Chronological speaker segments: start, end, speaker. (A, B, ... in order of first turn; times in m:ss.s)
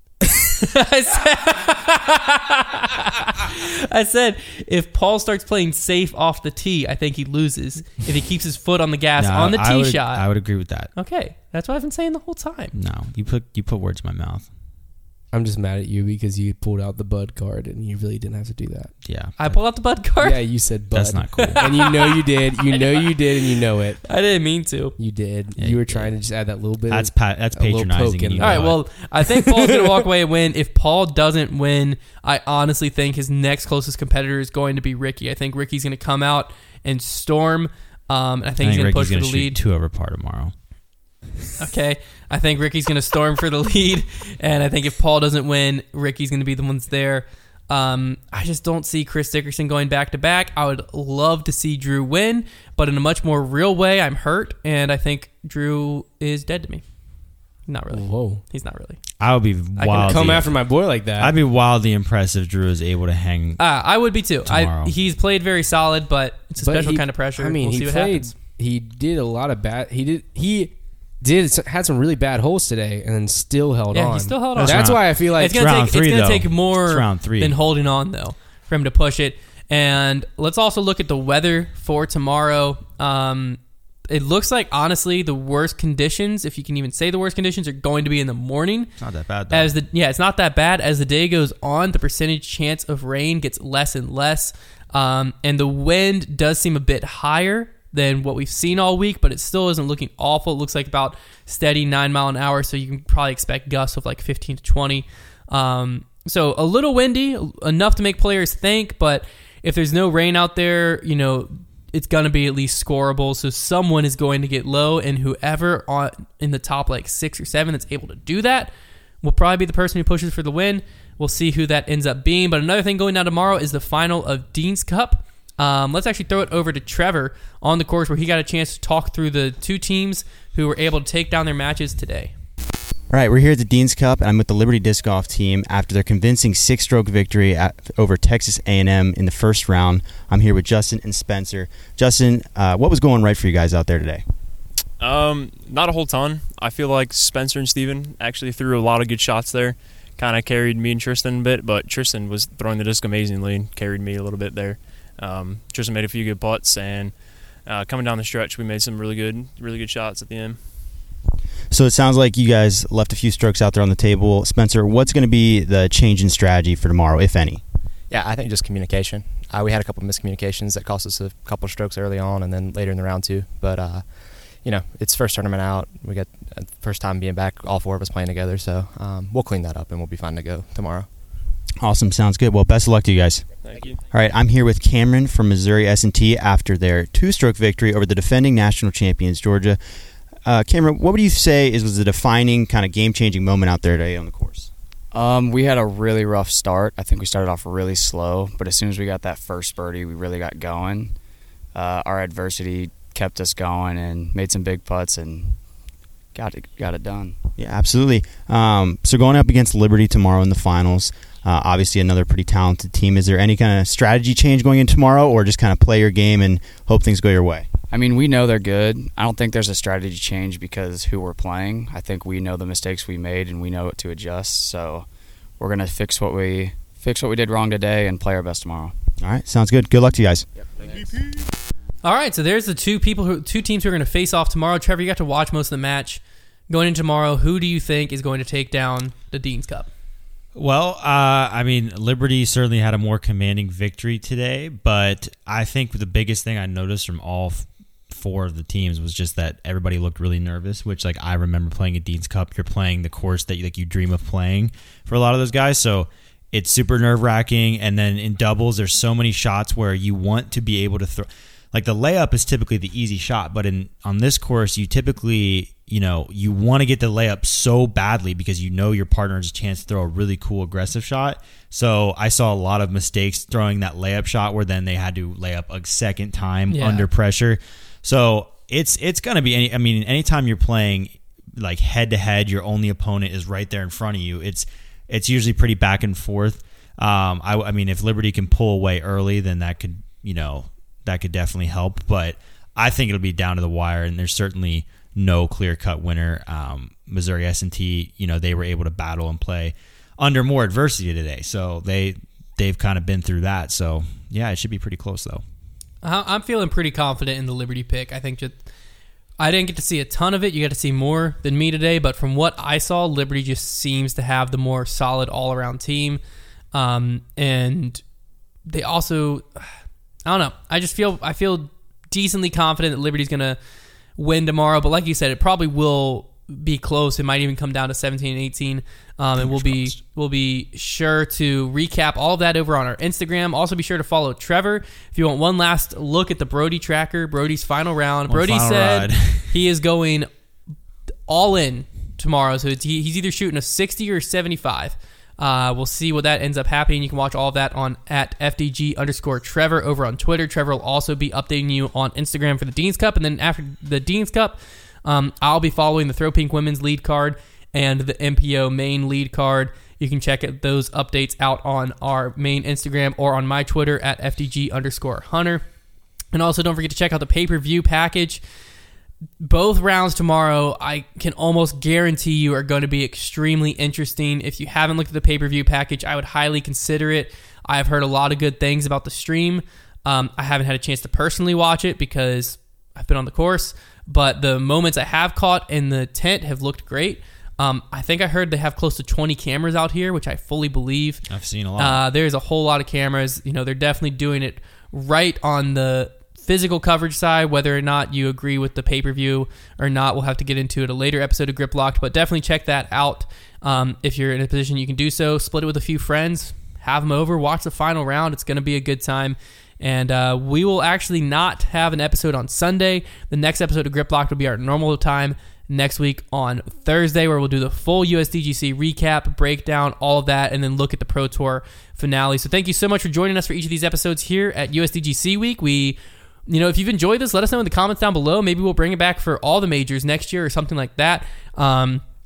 0:00.5-0:10.3 A
0:09.2-0:10.9 B
0:11.0-0:12.8 A
0:12.7-0:14.5 B
0:15.3-0:18.9 C
0:19.0-0:19.6 B
0:19.4-0:20.4 A
0:20.2-0:24.0 C
0:20.9-0:21.6 B
0:21.4-0:23.2 A
0:24.0-0:25.0 A
0:25.0-0:30.0 C
0:25.6-0:26.1 B
0:26.9-0:28.8 B
0:28.4-0:39.6 A
0:38.6-0:40.5 B
0:41.6-0:56.8 A
0:57.7-0:59.0 A
0:57.9-0:58.4 C
0:59.2-1:00.5 B
0:59.8-1:00.5 A
0:59.9-1:01.4 C
1:01.2-1:03.6 B
1:03.6-1:08.3 A
1:04.4-1:04.9 B
1:06.6-1:15.6 C
1:13.9-1:28.9 A
1:14.6-1:17.6 B
1:29.0-1:29.7 B
1:29.5-2:12.3 A
2:13.1-2:24.2 D
2:25.0-2:40.6 E
2:41.7-2:47.6 D
2:48.1-2:54.0 F
2:54.6-3:01.1 F
3:01.8-3:03.5 D
3:03.6-3:04.0 E
3:04.1-3:09.8 D
3:10.4-3:14.7 D
3:15.1-3:21.2 G
3:21.7-3:25.6 G
3:26.3-3:27.4 G
3:27.6-3:37.7 D
3:37.9-3:45.1 G
3:45.6-3:49.0 G
3:49.2-3:50.5 D
3:50.8-3:51.1 G
3:52.0-3:59.9 A
4:00.5-5:05.4 B
4:36.7-4:37.1 A
5:06.0-5:08.6 A
5:09.4-5:16.2 A
5:16.7-5:18.0 A
5:18.7-5:19.7 A
5:20.3-5:23.6 A
5:24.2-5:40.3 A
5:29.4-5:30.0 B
5:38.3-5:39.6 B
5:41.3-6:05.6 A
6:06.3-6:08.4 A
6:09.4-6:31.2 A
6:31.3-6:32.0 B
6:31.8-7:12.0 A